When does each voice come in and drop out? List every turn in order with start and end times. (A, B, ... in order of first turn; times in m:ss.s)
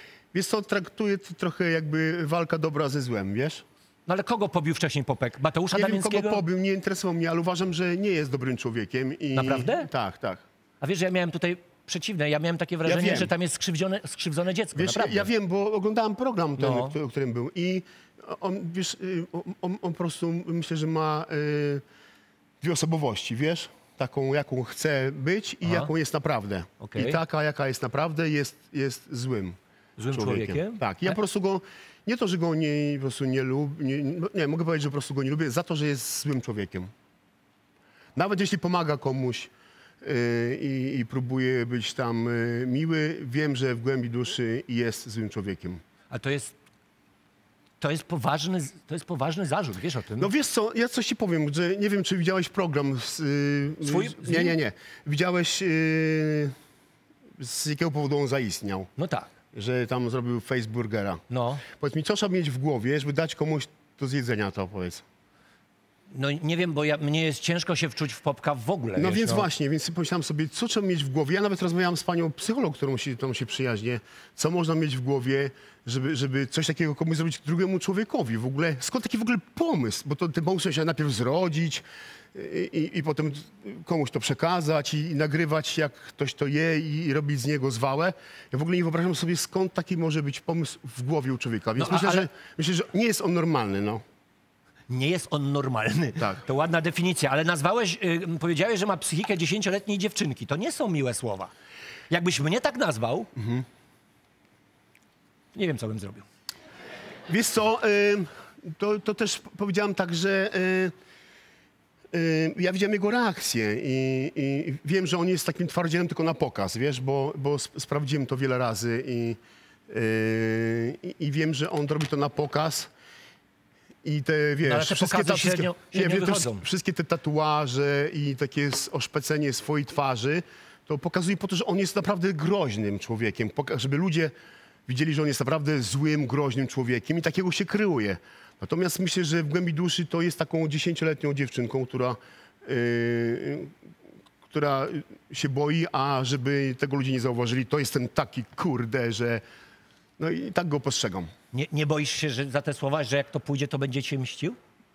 0:00.3-0:03.6 A
0:04.1-0:06.4 B
0:05.7-0:10.4 A
0:09.3-0:09.9 B
0:10.8-0:15.3 B
0:12.8-0:13.3 A
0:14.8-0:21.8 A
0:16.6-0:17.0 B
0:22.6-0:29.6 A
0:25.6-0:25.9 B
0:26.8-0:27.2 B
0:30.0-0:31.2 B
0:30.1-0:36.9 A
0:38.2-0:39.5 A
0:40.0-0:45.8 A
0:46.1-0:46.6 B
0:47.8-0:50.3 B
0:50.2-0:56.5 A
0:53.8-0:54.6 B
0:57.4-0:58.9 A
0:59.0-0:59.3 B
0:59.5-1:05.0 A
1:01.3-1:01.6 B
1:06.1-1:09.5 B
1:09.0-1:34.0 A
1:31.8-1:32.3 B
1:34.9-1:41.5 B
1:42.1-1:43.3 B
1:43.4-1:43.6 A
1:45.6-1:46.2 B
1:47.3-1:50.9 A
1:52.1-2:02.9 A
2:04.0-2:14.3 A
2:04.6-2:06.6 B
2:14.9-2:23.7 A
2:24.5-2:29.4 A
2:30.2-2:31.3 A
2:31.5-2:34.6 B